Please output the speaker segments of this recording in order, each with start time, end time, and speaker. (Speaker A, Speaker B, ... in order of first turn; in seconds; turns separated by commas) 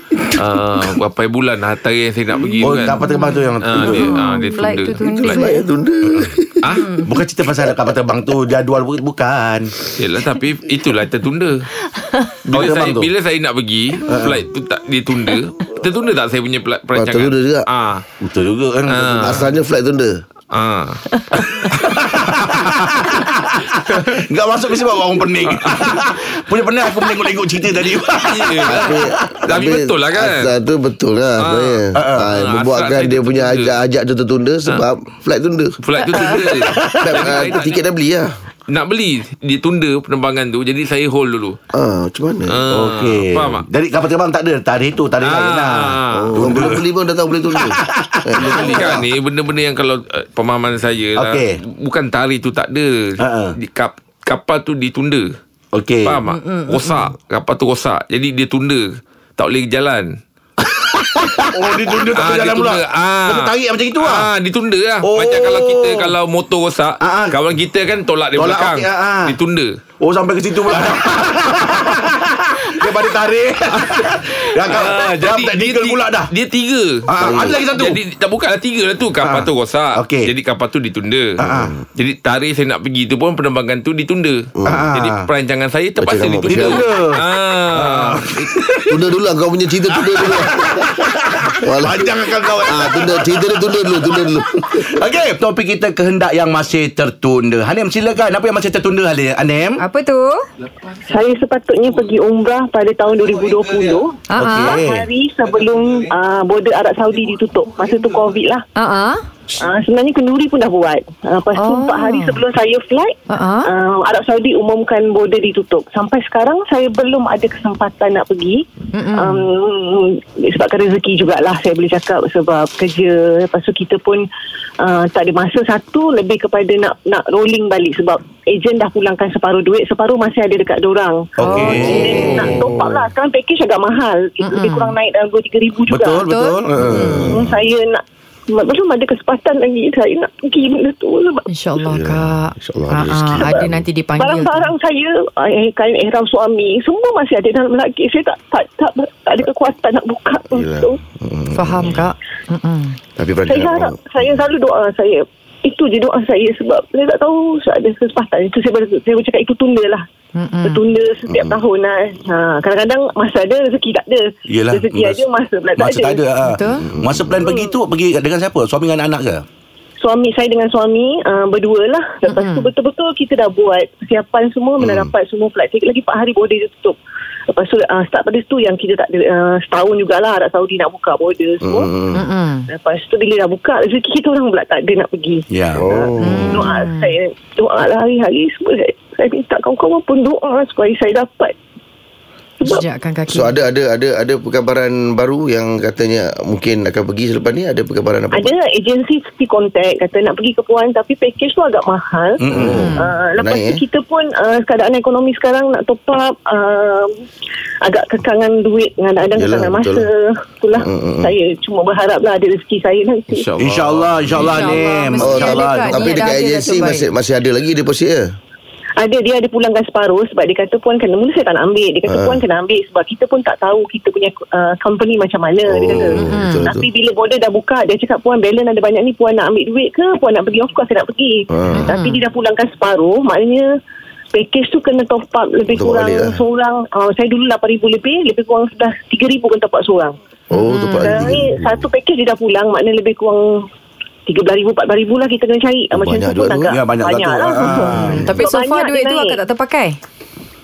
Speaker A: 0.2-3.0, Speaker B: 2.6-4.2, Speaker C: 3.0-5.6, Speaker A: 3.6-5.4, Speaker D: 5.2-6.7, Speaker A: 6.2-6.9, Speaker C: 6.8-7.0, Speaker B: 7.0-9.8, Speaker A: 10.0-11.7, Speaker A: 12.4-18.0, Speaker B: 12.5-13.1, Speaker B: 14.1-14.4, Speaker D: 16.9-17.6, Speaker B: 18.2-19.4, Speaker A: 18.9-19.5, Speaker D: 19.2-20.2, Speaker A: 20.5-22.6, Speaker B: 21.6-29.4, Speaker A: 23.9-24.2, Speaker A: 25.4-26.0, Speaker A: 28.2-30.5, Speaker D: 28.7-36.4, Speaker A: 31.4-33.7, Speaker B: 31.9-32.3, Speaker A: 35.8-37.8, Speaker B: 36.6-37.5, Speaker D: 37.0-38.3, Speaker A: 38.7-41.6, Speaker D: 41.7-42.6, Speaker A: 42.5-43.6, Speaker B: 42.7-46.8, Speaker A: 45.2-46.8, Speaker D: 46.1-49.0, Speaker B: 47.5-49.0, Speaker A: 48.4-55.3, Speaker B: 51.1-51.6, Speaker B: 53.2-53.5, Speaker B: 55.7-56.2, Speaker A: 56.0-60.1, Speaker C: 56.3-57.0, Speaker B: 60.6-64.3, Speaker A: 62.1-69.7, Speaker B: 65.0-66.1, Speaker B: 67.0-67.3, Speaker B: 68.3-69.3, Speaker B: 70.0-76.3, Speaker A: 70.7-71.8, Speaker A: 73.9-81.4, Speaker B: 77.1-78.0, Speaker D: 77.2-77.6, Speaker B: 79.2-80.3, Speaker B: 81.4-81.7, Speaker D: 81.4-81.8, Speaker A: 81.9-88.3, Speaker B: 84.7-85.3, Speaker D: 86.0-86.8, Speaker B: 86.4-89.0, Speaker D: 88.9-94.9, Speaker B: 90.0-99.8, Speaker C: 99.8-100.4, Speaker E: 101.1-108.6, Speaker C: 104.3-104.8, Speaker B: 104.3-105.0, Speaker C: 108.7-109.2, Speaker E: 109.6-118.6, Speaker C: 111.5-112.4, Speaker C: 113.3-113.7, Speaker C: 118.9-119.4, Speaker E: 119.1-124.3, Speaker E: 124.8-136.2, Speaker B: 131.4-132.7, Speaker C: 131.4-132.5, Speaker D: 131.8-133.0, Speaker C: 134.4-134.9, Speaker B: 135.9-137.4, Speaker C: 136.2-136.6, Speaker D: 136.8-137.6, Speaker E: 137.3-141.4, Speaker C: 141.5-144.7, Speaker D: 141.8-143.8, Speaker E: 143.4-143.7, Speaker E: 144.2-151.0, Speaker D: 150.5-152.0, Speaker C: 151.5-153.0, Speaker D: 153.2-154.4, Speaker E: 153.4-160.1, Speaker C: 160.3-160.8, Speaker E: 160.6-166.2, Speaker D: 161.3-161.6, Speaker B: 164.5-165.2, Speaker B: 165.8-169.4, Speaker C: 166.4-166.8, Speaker D: 166.8-167.5, Speaker E: 167.4-167.7, Speaker E: 170.0-177.0, Speaker C: 172.2-172.7, Speaker D: 174.8-175.1, Speaker E: 177.5-181.9, Speaker D: 181.6-182.2, Speaker C: 182.1-182.7, Speaker E: 182.7-191.5, Speaker B: 185.5-185.9, Speaker D: 185.7-186.7, Speaker C: 186.2-187.1, Speaker C: 192.6-193.5, Speaker D: 193.3-198.5, Speaker E: 198.3-207.2, Speaker B: 202.4-202.9, Speaker D: 202.5-203.8, Speaker C: 202.8-203.1, Speaker E: 207.8-213.5, Speaker D: 209.3-210.0, Speaker D: 210.8-211.3, Speaker A: 213.3-214.8, Speaker B: 213.6-216.3, Speaker C: 214.4-217.1, Speaker D: 215.2-218.3, Speaker E: 219.0-233.7, Speaker D: 222.1-222.4, Speaker D: 225.7-226.9, Speaker C: 226.2-226.7, Speaker D: 231.5-231.9, Speaker C: 231.7-232.2, Speaker E: 234.3-240.2, Speaker D: 235.7-236.4, Speaker D: 240.5-241.9, Speaker C: 240.5-241.4, Speaker E: 241.0-243.4, Speaker E: 244.3-249.4, Speaker D: 245.9-246.7, Speaker B: 246.7-248.3, Speaker D: 247.7-248.4, Speaker C: 248.1-250.0